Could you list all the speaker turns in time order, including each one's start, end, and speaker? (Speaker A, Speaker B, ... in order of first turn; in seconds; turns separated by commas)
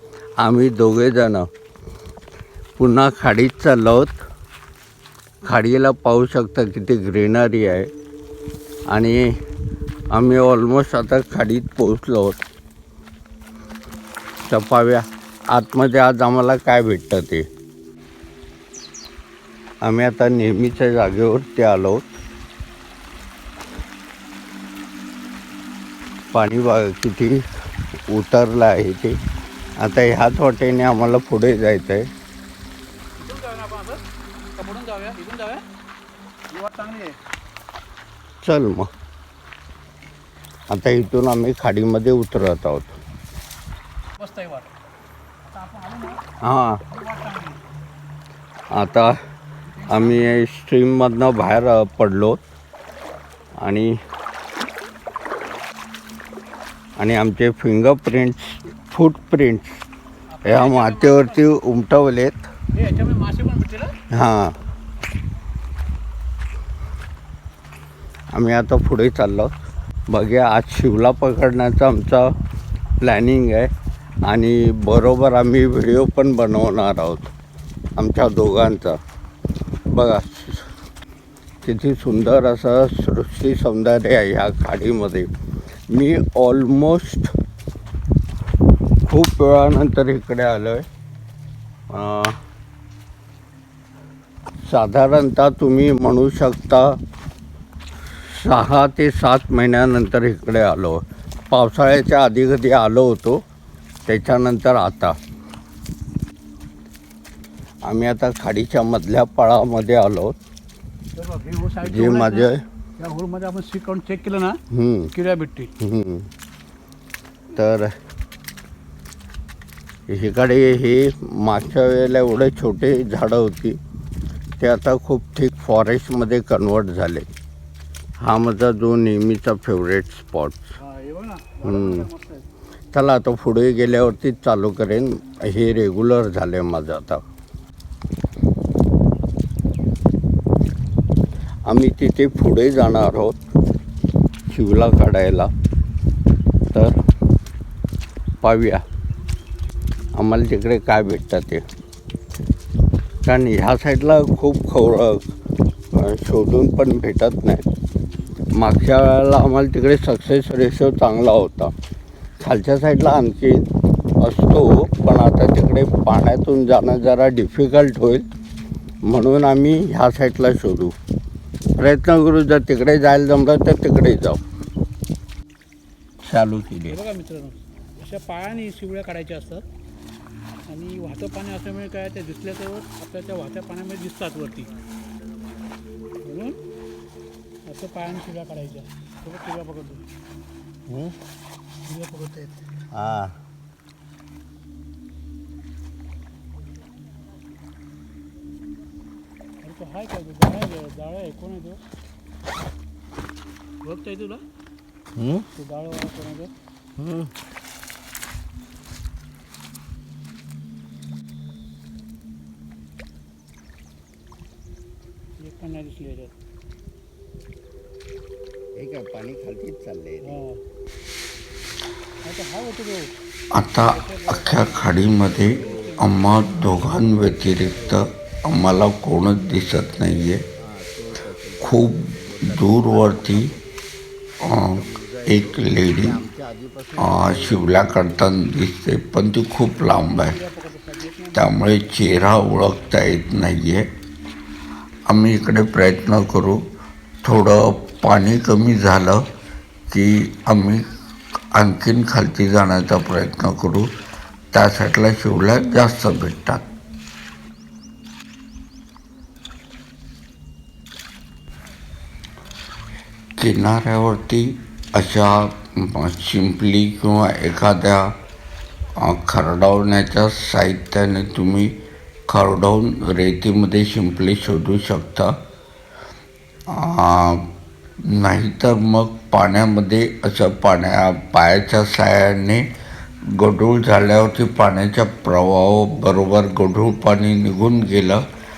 Speaker A: 0.4-1.5, Speaker A: 2.8-4.2, Speaker A: 5.4-7.9, Speaker A: 8.9-9.3, Speaker A: 10.1-12.4, Speaker A: 14.4-17.4, Speaker A: 19.8-22.1, Speaker A: 26.3-27.4, Speaker A: 28.1-29.2, Speaker A: 29.8-32.1, Speaker B: 33.2-34.0, Speaker B: 34.5-35.6, Speaker B: 36.5-37.2, Speaker A: 38.4-38.9, Speaker A: 40.7-43.0, Speaker B: 44.2-44.7, Speaker B: 45.5-46.2, Speaker A: 46.4-46.8, Speaker B: 46.9-47.6, Speaker A: 48.7-49.2, Speaker B: 49.8-50.4, Speaker A: 49.9-52.4, Speaker A: 53.6-53.9, Speaker A: 57.0-59.8, Speaker B: 60.4-61.4, Speaker A: 60.4-62.5, Speaker B: 62.7-63.9, Speaker A: 64.1-64.5, Speaker A: 68.3-69.5, Speaker A: 70.1-72.3, Speaker A: 73.0-73.7, Speaker A: 74.2-77.3, Speaker A: 78.0-79.0, Speaker A: 79.9-80.7, Speaker A: 81.6-85.3, Speaker A: 85.9-87.3, Speaker A: 89.0-90.8, Speaker A: 91.9-92.4, Speaker A: 94.7-97.0, Speaker A: 98.3-103.4, Speaker A: 104.1-105.2, Speaker A: 107.8-110.3, Speaker B: 111.2-114.6, Speaker A: 111.8-112.6, Speaker A: 114.7-115.1, Speaker B: 115.1-115.7, Speaker A: 115.8-116.3, Speaker A: 117.5-117.9, Speaker A: 120.1-123.8, Speaker A: 124.6-127.3, Speaker A: 128.2-130.7, Speaker B: 130.8-132.4, Speaker A: 131.6-132.1, Speaker A: 132.9-137.2, Speaker A: 141.7-143.4, Speaker A: 144.5-145.5, Speaker A: 148.4-148.8, Speaker A: 150.2-151.6, Speaker A: 153.2-155.3, Speaker A: 155.9-157.6, Speaker A: 158.6-161.7, Speaker A: 162.4-163.7, Speaker A: 164.2-168.2, Speaker A: 169.1-170.9, Speaker A: 171.8-174.4, Speaker A: 176.2-177.0, Speaker B: 176.9-179.6, Speaker B: 180.7-184.7, Speaker B: 186.2-186.6, Speaker B: 187.6-190.0, Speaker A: 190.9-191.2, Speaker B: 191.8-192.6, Speaker A: 192.9-193.3, Speaker B: 199.6-201.8, Speaker B: 203.8-204.4, Speaker A: 205.2-205.4, Speaker B: 205.5-206.5, Speaker A: 207.0-207.3, Speaker B: 215.4-216.3, Speaker A: 218.8-220.4, Speaker B: 220.2-220.6, Speaker B: 222.2-223.1, Speaker C: 223.5-230.4, Speaker B: 223.8-226.1, Speaker A: 225.5-228.1, Speaker A: 230.6-233.7, Speaker C: 231.6-233.5, Speaker C: 234.4-236.2, Speaker A: 234.5-238.2, Speaker C: 237.0-240.4, Speaker B: 240.1-241.9, Speaker C: 241.3-243.9, Speaker C: 245.1-246.7, Speaker C: 247.2-249.3, Speaker C: 249.9-250.9, Speaker C: 251.5-253.9, Speaker C: 254.5-256.7, Speaker C: 263.4-268.1, Speaker C: 269.0-275.4, Speaker C: 276.7-277.5, Speaker C: 278.0-282.7, Speaker C: 283.3-288.3